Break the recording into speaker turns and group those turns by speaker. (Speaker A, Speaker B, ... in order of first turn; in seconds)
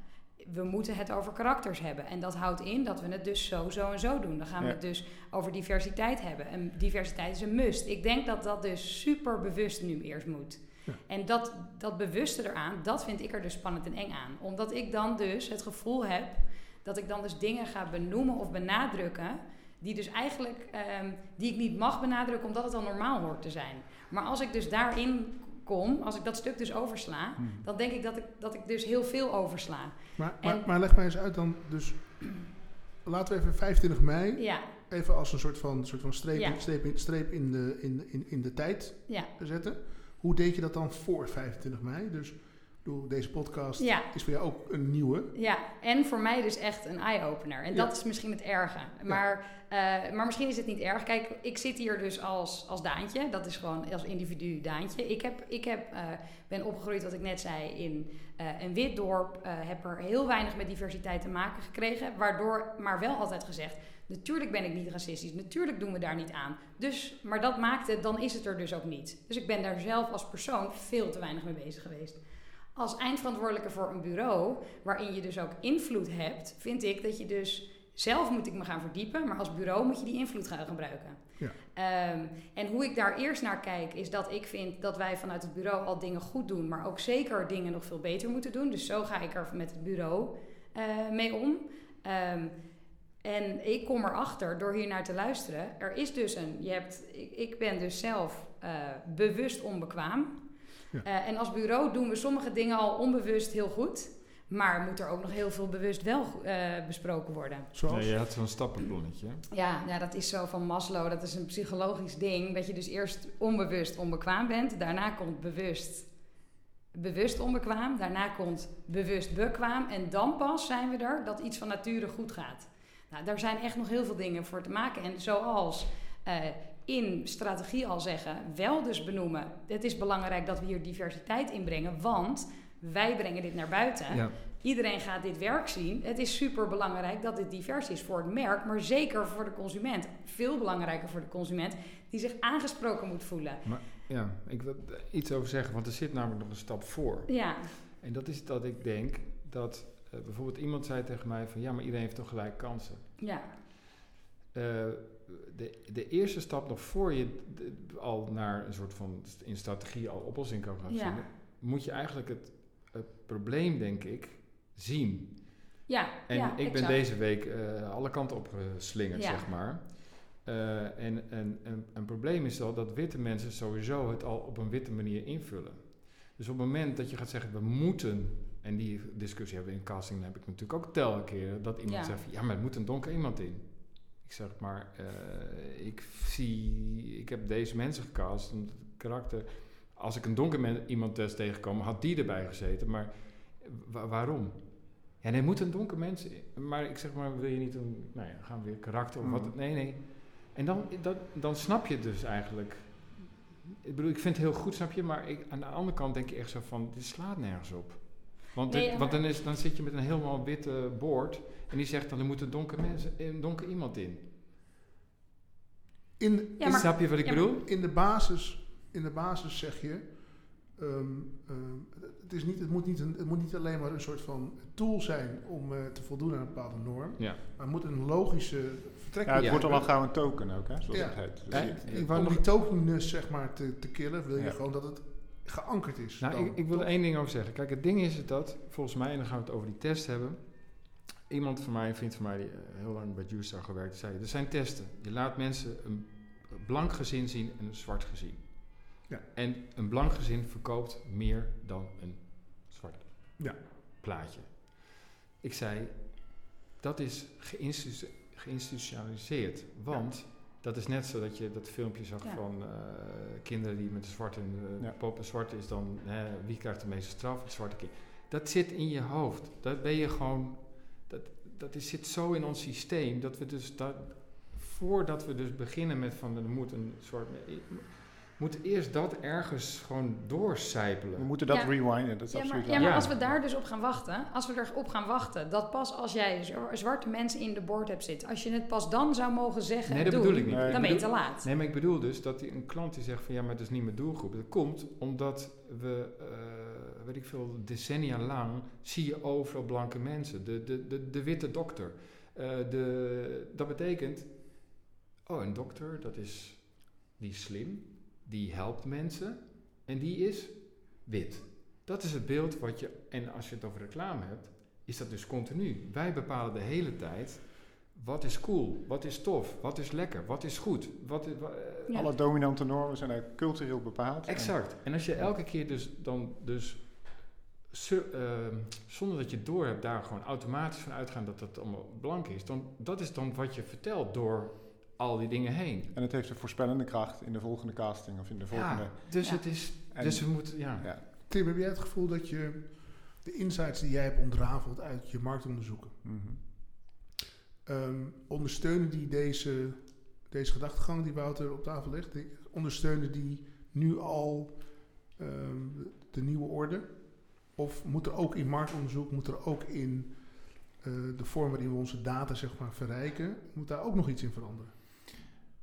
Speaker A: 0.4-30.6, 34.4-34.7, 36.3-36.6, 43.8-44.1, 45.3-72.2, 72.7-92.5, 93.2-100.5, 101.0-107.7, 109.5-143.6, 147.3-147.7, 153.2-153.5, 160.9-161.2, 165.9-167.0, 169.1-169.4, 181.8-182.2, 208.7-209.2, 216.6-217.4, 281.5-291.4
Speaker B: 27.4-27.7, 199.2-199.5, 229.2-232.3, 281.2-283.4, 290.4-290.9, 321.9-324.6, 335.9-339.3, 339.9-341.0, 346.0-346.4
Speaker C: 30.2-45.3, 47.7-48.0, 107.7-108.2, 216.2-236.9, 341.1-346.0, 347.6-364.7
Speaker D: 107.9-109.4, 134.1-134.3, 143.6-153.1, 154.5-214.2, 216.7-217.6, 229.4-229.7, 231.5-232.4, 236.2-281.3, 282.7-283.2, 289.9-322.0, 324.3-335.9, 338.5-340.9